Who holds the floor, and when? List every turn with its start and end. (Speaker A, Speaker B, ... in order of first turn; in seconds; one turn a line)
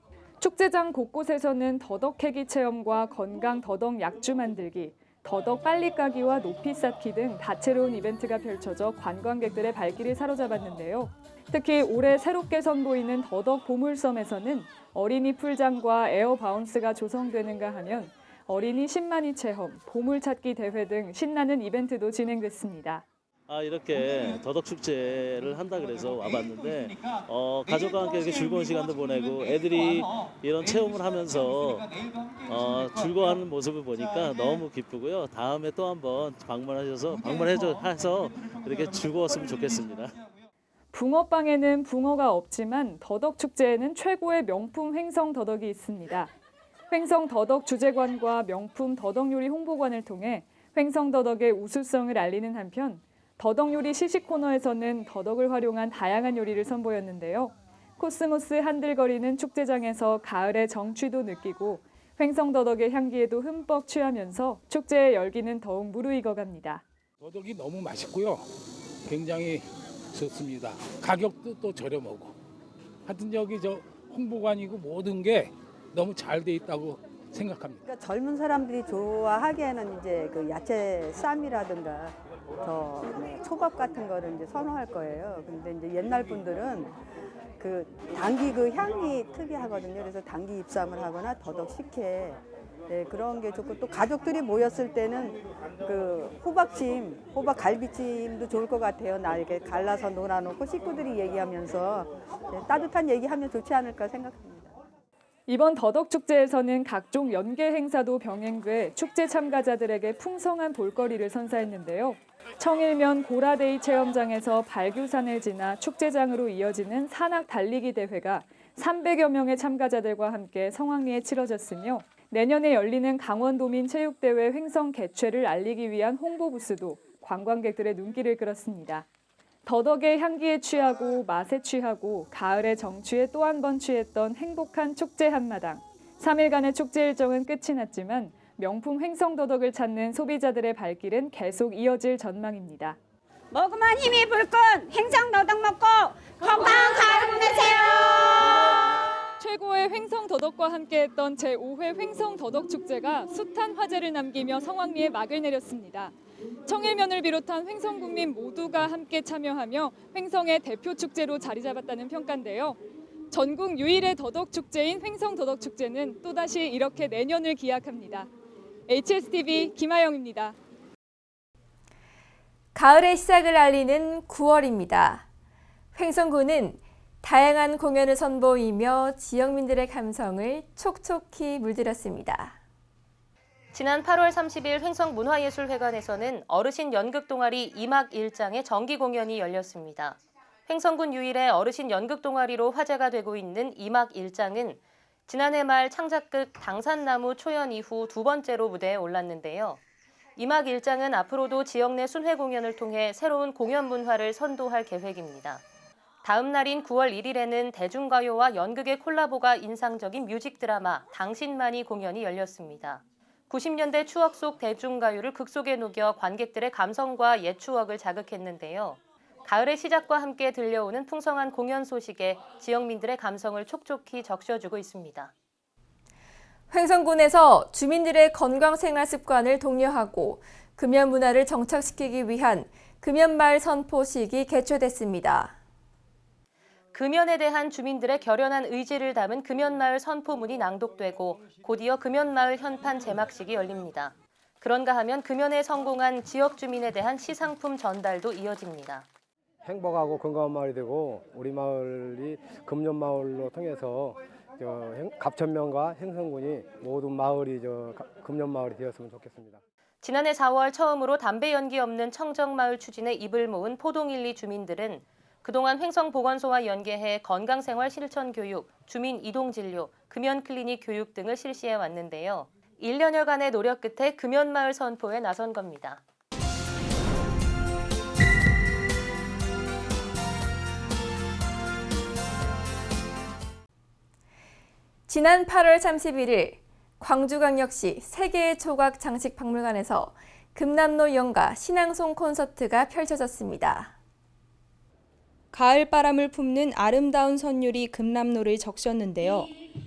Speaker A: 0.4-23.0
Speaker B: 23.5-31.9
Speaker B: 32.5-40.2
Speaker A: 40.9-46.3
Speaker A: 46.9-66.8
Speaker C: 67.2-68.5
Speaker C: 69.0-72.3
Speaker C: 73.0-77.8
Speaker D: 77.8-86.9
Speaker D: 87.6-104.7
Speaker A: 105.5-129.0
Speaker A: 129.6-143.0
Speaker E: 143.5-148.7
Speaker A: 149.4-156.1
Speaker A: 156.7-162.8
Speaker A: 163.3-168.3
Speaker A: 168.9-170.6
Speaker F: 172.7-175.3
Speaker F: 175.9-182.6
Speaker G: 183.7-199.8
Speaker G: 200.3-205.6
Speaker G: 206.2-225.3
Speaker F: 226.7-235.6
Speaker G: 236.9-249.1
Speaker H: 249.6-259.6
Speaker G: 260.0-276.0
Speaker F: 285.1-293.9
Speaker I: 295.5-299.5